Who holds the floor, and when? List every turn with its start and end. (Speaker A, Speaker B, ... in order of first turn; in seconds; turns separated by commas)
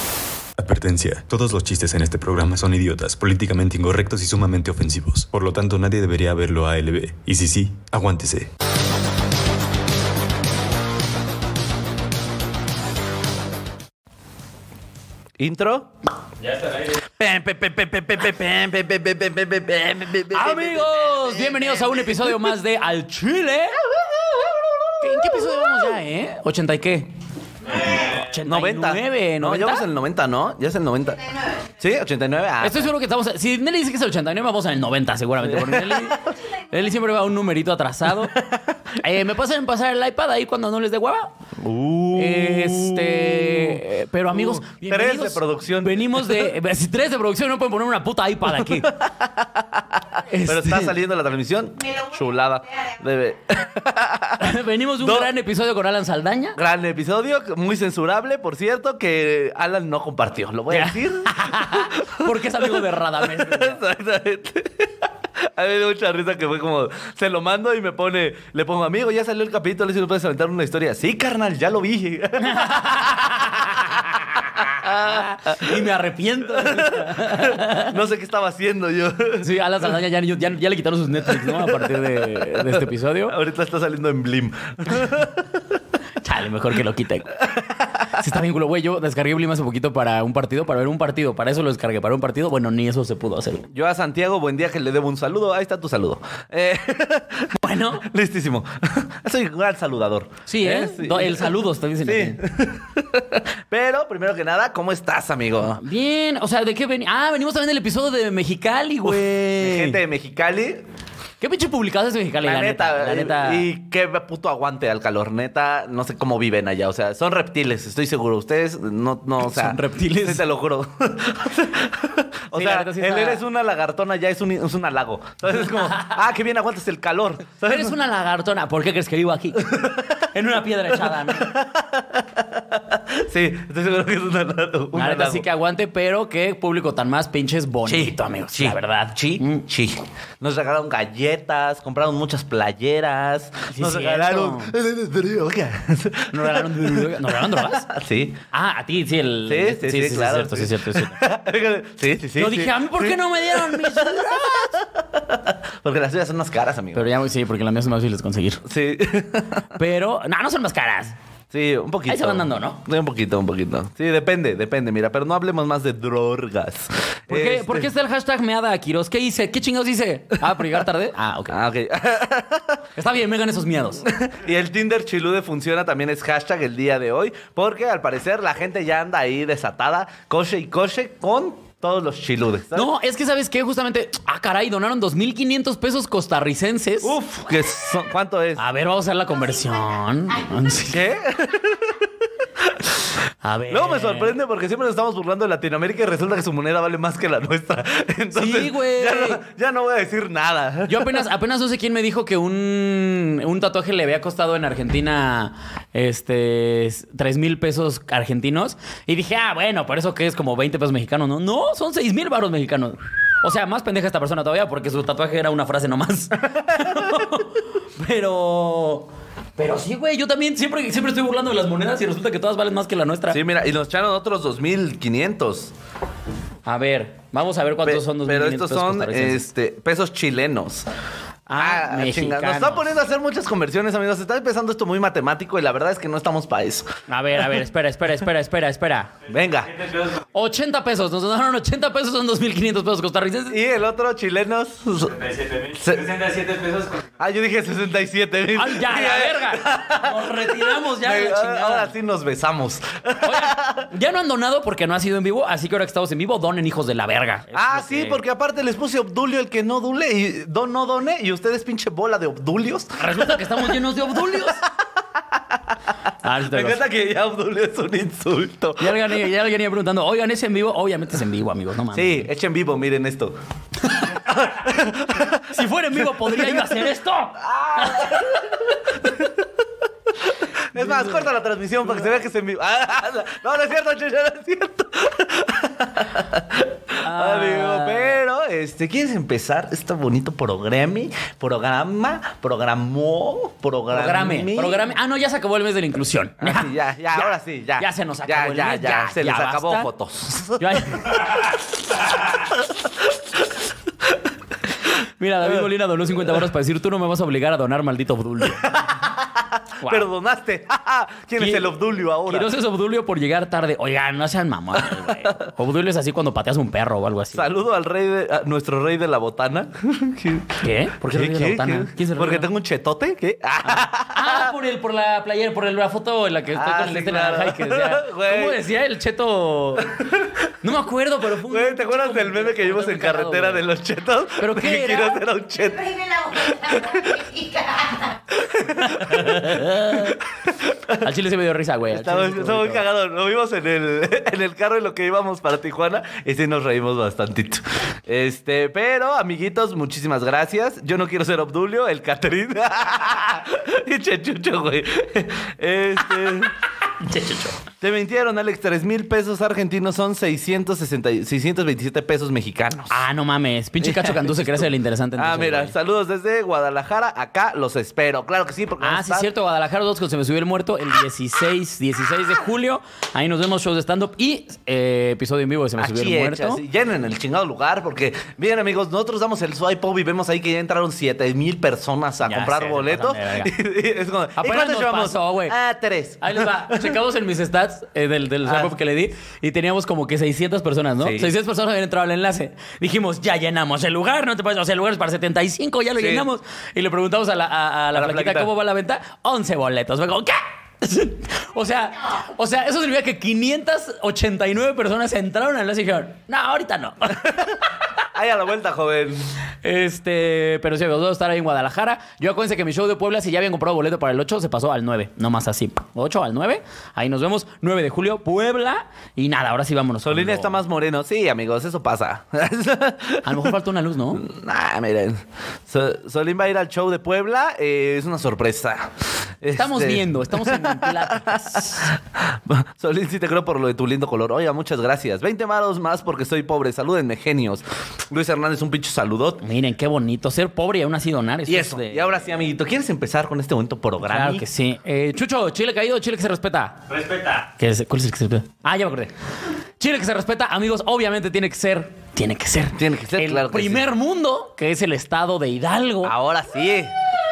Speaker A: 0.6-8.5, Speaker B: 15.4-15.9, Speaker C: 16.4-16.9, Speaker B: 17.2-22.4, Speaker D: 20.3-23.8, Speaker B: 23.9-25.6, Speaker D: 25.0-27.1, Speaker B: 27.7-31.2, Speaker D: 27.7-29.9, Speaker C: 27.8-28.1, Speaker E: 31.3-31.7, Speaker B: 31.8-32.9, Speaker D: 32.6-38.3, Speaker B: 35.4-36.3, Speaker B: 38.3-38.7, Speaker D: 39.0-41.3, Speaker B: 41.6-43.8, Speaker D: 42.1-48.9, Speaker B: 44.3-46.5, Speaker B: 48.6-55.3, Speaker D: 50.3-50.9, Speaker E: 51.8-53.0, Speaker D: 54.4-56.6, Speaker B: 56.5-73.5, Speaker D: 60.7-63.8, Speaker D: 72.4-78.0, Speaker B: 74.5-75.8, Speaker B: 76.5-79.5, Speaker D: 79.4-83.3, Speaker B: 81.4-81.9, Speaker B: 82.5-85.6, Speaker D: 86.2-87.4, Speaker B: 87.6-88.2, Speaker D: 88.2-93.7, Speaker B: 93.7-105.8, Speaker D: 97.6-98.1, Speaker D: 100.5-102.4, Speaker D: 105.8-110.0, Speaker B: 109.0-110.8, Speaker D: 111.4-113.7, Speaker B: 112.4-127.9, Speaker D: 119.4-120.4, Speaker D: 122.5-123.4, Speaker D: 125.7-126.2, Speaker D: 127.7-131.6, Speaker B: 129.6-130.2, Speaker B: 130.9-135.5, Speaker D: 134.9-139.6, Speaker B: 137.8-148.4, Speaker D: 143.7-144.7, Speaker D: 146.3-147.9, Speaker D: 148.5-151.2, Speaker B: 149.5-157.1, Speaker D: 152.4-154.7, Speaker D: 156.9-158.6, Speaker B: 158.6-159.8, Speaker D: 159.8-161.1, Speaker B: 161.5-167.9, Speaker D: 162.1-162.8, Speaker D: 167.3-171.6, Speaker B: 171.5-172.8, Speaker D: 173.0-174.0, Speaker B: 174.0-182.9, Speaker D: 182.7-187.1, Speaker B: 187.0-188.6, Speaker D: 188.6-191.0, Speaker B: 190.9-193.1, Speaker D: 193.4-194.4, Speaker B: 193.7-201.2, Speaker D: 198.3-199.4, Speaker D: 200.9-223.4, Speaker B: 223.3-225.7, Speaker D: 226.7-229.5, Speaker B: 227.8-230.9, Speaker D: 231.5-232.9, Speaker B: 231.5-236.9, Speaker D: 237.1-239.1, Speaker B: 239.3-239.7, Speaker C: 239.6-240.2, Speaker D: 240.3-243.6, Speaker B: 243.5-245.1, Speaker C: 245.0-247.2, Speaker B: 245.8-246.1, Speaker B: 247.2-253.9, Speaker D: 248.5-251.9, Speaker D: 253.2-258.2, Speaker B: 257.5-263.6, Speaker D: 263.0-264.6, Speaker D: 266.2-266.8, Speaker B: 266.4-269.1, Speaker D: 268.8-272.3, Speaker B: 271.9-273.4, Speaker D: 273.8-274.2, Speaker B: 274.2-275.5, Speaker D: 275.3-278.6, Speaker B: 276.1-276.8, Speaker B: 277.4-279.3, Speaker B: 280.7-294.8, Speaker D: 280.7-281.3, Speaker D: 287.0-288.2, Speaker D: 293.9-299.9, Speaker B: 296.4-301.1, Speaker D: 300.6-301.5, Speaker B: 302.5-303.2, Speaker D: 305.0-308.8, Speaker B: 308.6-312.5, Speaker D: 309.8-310.1, Speaker D: 311.4-317.5, Speaker B: 317.3-324.5, Speaker D: 320.6-322.5, Speaker D: 323.6-329.9, Speaker B: 326.5-328.6, Speaker B: 329.8-330.3, Speaker D: 330.6-333.7, Speaker B: 331.4-335.8, Speaker D: 334.4-335.2, Speaker E: 335.5-338.2, Speaker B: 336.7-337.0, Speaker B: 338.3-341.1, Speaker D: 338.8-340.2, Speaker D: 341.0-342.8, Speaker B: 341.9-356.6, Speaker D: 357.0-357.6, Speaker B: 357.8-363.0, Speaker D: 362.9-365.7, Speaker B: 363.8-369.3, Speaker D: 368.8-376.6, Speaker B: 375.8-387.0, Speaker D: 382.2-383.5, Speaker D: 384.4-385.5, Speaker D: 386.2-407.7, Speaker B: 388.4-388.7, Speaker B: 391.0-391.3, Speaker B: 396.0-396.3, Speaker B: 397.9-398.5, Speaker B: 408.1-409.2, Speaker D: 409.6-420.6, Speaker B: 420.0-423.5, Speaker D: 423.2-424.2, Speaker B: 424.1-439.4, Speaker D: 429.5-431.9, Speaker D: 439.4-442.1, Speaker B: 441.4-444.4, Speaker D: 444.0-446.8, Speaker C: 446.9-447.5, Speaker D: 447.6-449.1, Speaker D: 449.8-456.1, Speaker B: 452.7-453.8, Speaker B: 456.0-456.9